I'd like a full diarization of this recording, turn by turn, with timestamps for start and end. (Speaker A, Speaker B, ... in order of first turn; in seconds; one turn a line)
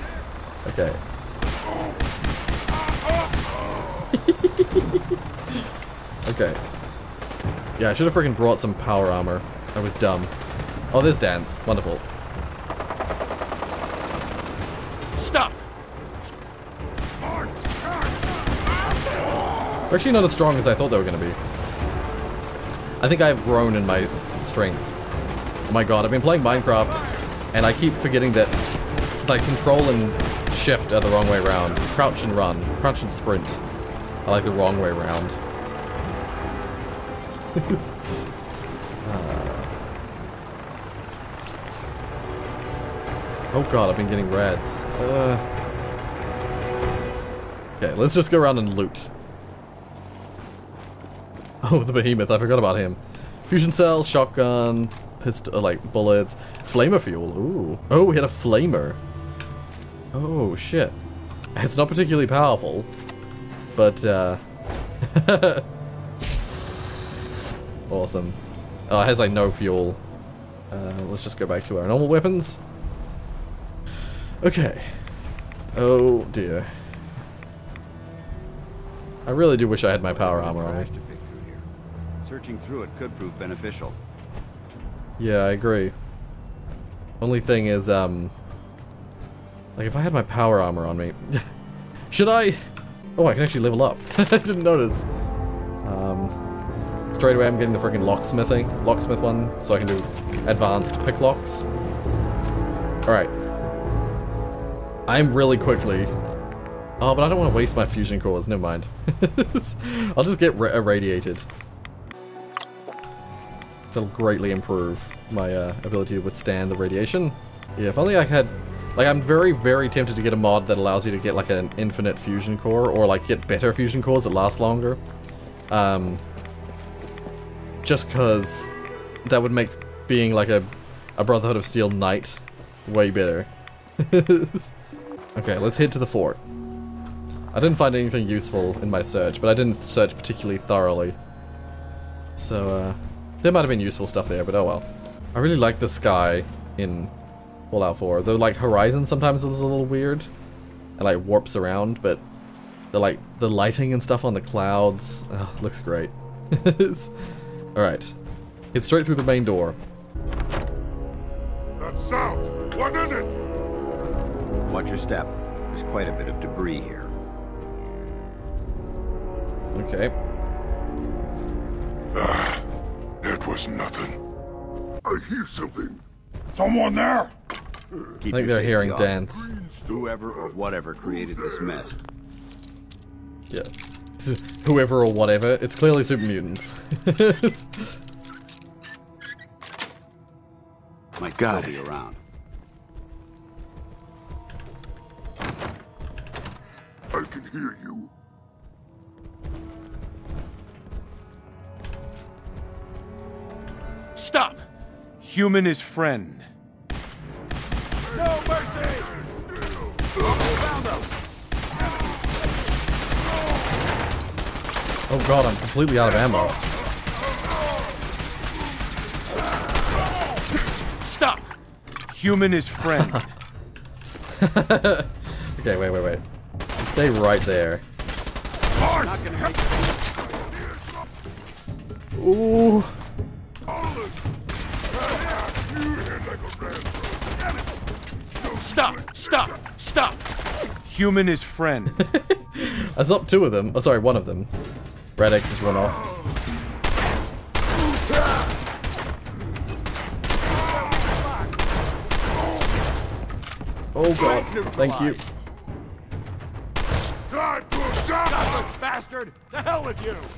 Speaker A: 0.7-1.0
Speaker A: 4.2-5.7
Speaker A: 6.3-6.6
Speaker A: 7.8-10.3
Speaker A: 10.9-12.0
Speaker A: 19.9-21.4
Speaker A: 23.0-24.9
Speaker A: 25.7-28.6
Speaker A: 29.2-33.6
Speaker A: 34.3-35.4
Speaker A: 37.5-38.0
Speaker A: 39.0-39.7
Speaker A: 43.5-45.5
Speaker A: 47.8-49.1
Speaker A: 51.6-59.0
Speaker A: 60.1-61.0
Speaker A: 61.5-62.9
Speaker A: 63.8-64.4
Speaker A: 65.0-65.7
Speaker A: 67.9-68.4
Speaker A: 68.9-70.0
Speaker A: 70.7-72.6
Speaker A: 74.4-75.0
Speaker A: 75.8-76.7
Speaker A: 79.3-80.9
Speaker B: 80.1-81.7
Speaker B: 82.2-84.0
Speaker A: 85.2-85.9
Speaker A: 87.2-88.3
Speaker A: 89.8-91.5
Speaker A: 92.1-92.6
Speaker A: 93.2-95.1
Speaker A: 95.8-96.4
Speaker A: 97.1-101.6
Speaker A: 103.1-103.3
Speaker A: 105.1-106.1
Speaker A: 107.0-111.5
Speaker A: 113.9-125.0
Speaker A: 125.7-126.2
Speaker A: 127.8-128.7
Speaker A: 129.2-133.5
Speaker A: 134.0-134.7
Speaker A: 135.4-136.4
Speaker A: 137.5-141.2
Speaker A: 142.4-147.1
Speaker A: 147.7-150.3
Speaker A: 151.0-152.2
Speaker A: 152.9-157.1
Speaker A: 157.8-158.1
Speaker A: 158.7-159.8
Speaker C: 161.8-163.3
Speaker B: 164.7-167.1
Speaker A: 169.7-170.1
Speaker C: 172.2-172.6
Speaker C: 173.2-174.2
Speaker C: 175.1-176.0
Speaker C: 176.6-177.3
Speaker B: 178.2-179.2
Speaker A: 178.3-179.5
Speaker C: 179.4-182.0
Speaker B: 179.9-182.0
Speaker A: 183.5-188.0
Speaker B: 191.2-192.2
Speaker D: 191.4-191.8
Speaker C: 197.1-198.1
Speaker D: 205.2-206.5
Speaker C: 208.2-209.2
Speaker A: 215.1-216.6
Speaker D: 222.1-223.3
Speaker A: 222.9-223.2
Speaker A: 224.4-226.2
Speaker A: 226.8-227.8
Speaker B: 228.8-230.0
Speaker C: 228.8-229.1
Speaker A: 232.2-233.0
Speaker C: 235.0-236.9
Speaker C: 238.7-239.1
Speaker B: 239.1-239.5
Speaker D: 240.8-242.0
Speaker A: 242.0-244.5
Speaker A: 245.2-246.0
Speaker A: 253.9-255.2
Speaker C: 257.8-258.7